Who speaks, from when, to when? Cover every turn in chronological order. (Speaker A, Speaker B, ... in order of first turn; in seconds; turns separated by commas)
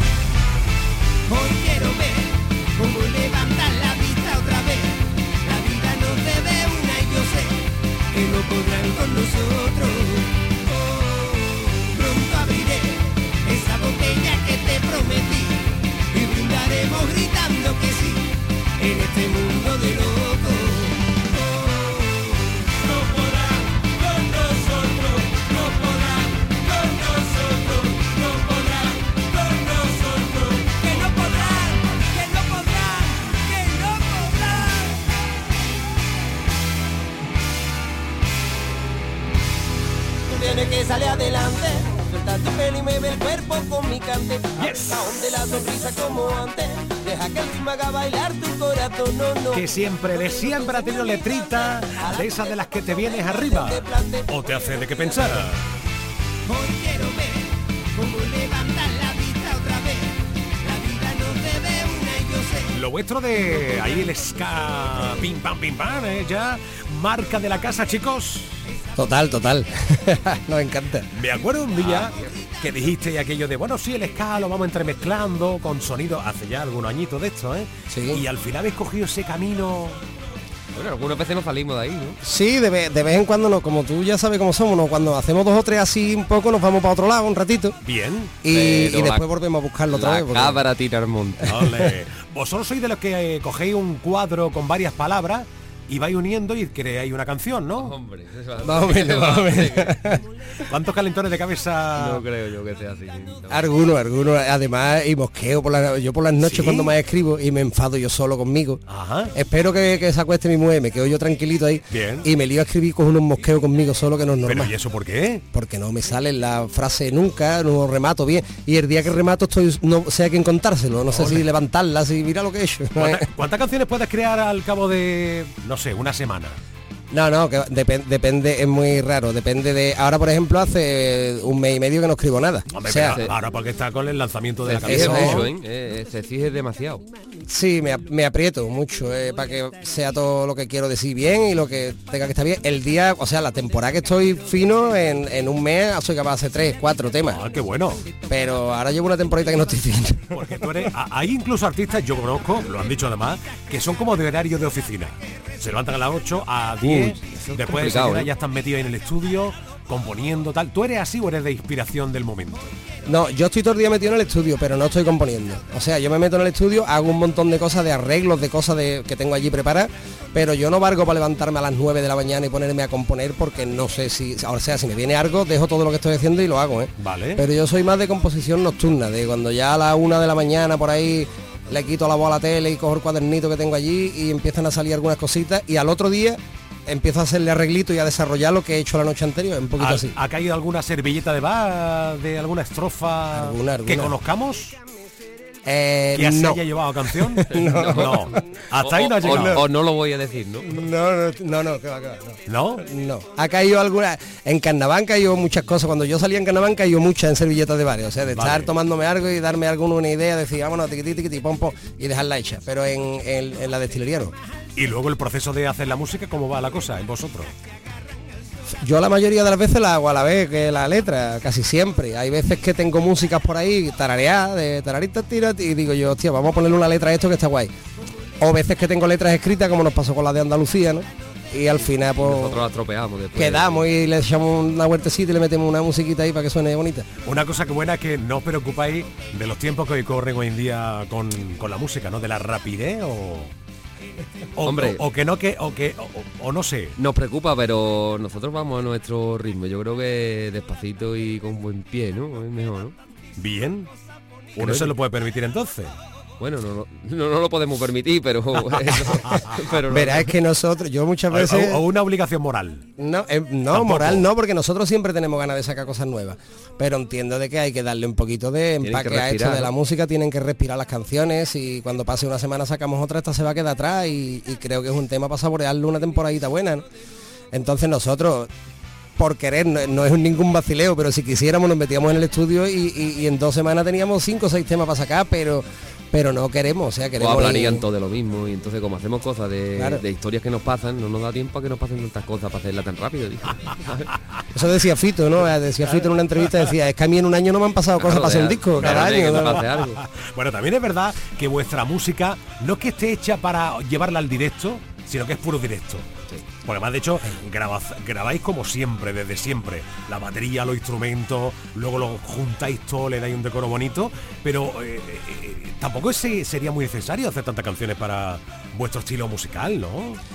Speaker A: 1.3-7.6, Speaker A: 8.1-18.3, Speaker A: 18.8-35.0, Speaker A: 40.3-49.6, Speaker B: 44.6-45.1, Speaker B: 49.5-55.6, Speaker A: 50.6-51.2, Speaker A: 51.9-52.4, Speaker A: 52.9-55.0, Speaker A: 56.5-62.7, Speaker B: 62.7-68.5, Speaker C: 69.0-71.1, Speaker B: 71.1-80.0, Speaker D: 71.8-72.3, Speaker C: 77.9-78.2, Speaker D: 80.7-82.2, Speaker C: 82.2-87.8, Speaker B: 87.8-88.3, Speaker C: 88.4-90.6, Speaker D: 88.5-89.3, Speaker D: 89.9-91.5, Speaker B: 91.5-97.9, Speaker D: 97.8-100.1, Speaker C: 98.6-100.2, Speaker B: 100.7-102.2, Speaker D: 102.0-103.7, Speaker C: 103.5-108.8, Speaker B: 106.4-106.9, Speaker B: 108.9-109.3, Speaker C: 109.3-114.7, Speaker B: 111.9-112.3, Speaker B: 114.5-115.4, Speaker C: 115.5-123.2, Speaker B: 121.1-121.4, Speaker B: 123.0-126.6, Speaker C: 127.1-133.2, Speaker B: 132.7-135.5, Speaker D: 133.1-133.4, Speaker D: 134.6-137.1, Speaker C: 134.8-135.4, Speaker C: 137.5-147.4, Speaker B: 147.3-148.1, Speaker C: 148.3-150.3, Speaker B: 150.3-162.7, Speaker D: 156.8-158.3, Speaker C: 163.1-190.1, Speaker B: 177.0-177.4, Speaker B: 189.8-194.8, Speaker C: 193.3-194.1, Speaker C: 195.6-196.6, Speaker B: 196.1-199.6, Speaker C: 197.4-198.3, Speaker D: 197.6-200.8, Speaker C: 199.2-199.6, Speaker C: 200.7-214.3, Speaker B: 202.5-202.8, Speaker B: 208.3-208.7, Speaker B: 214.8-217.5, Speaker C: 218.8-227.7, Speaker C: 228.4-232.5, Speaker D: 232.2-233.8, Speaker C: 233.3-237.1, Speaker B: 237.2-243.5, Speaker B: 244.6-246.9, Speaker D: 244.6-245.0, Speaker D: 247.0-252.9, Speaker B: 253.4-253.9, Speaker B: 254.5-255.9, Speaker D: 254.6-254.9, Speaker D: 256.4-260.3, Speaker C: 259.9-261.8, Speaker B: 261.3-262.8, Speaker C: 263.0-276.9, Speaker B: 263.7-264.2, Speaker D: 268.8-269.7, Speaker C: 277.5-278.5, Speaker C: 279.2-287.8, Speaker D: 287.2-294.1, Speaker C: 294.5-299.7, Speaker D: 298.0-300.0, Speaker B: 298.8-306.1, Speaker B: 306.6-320.2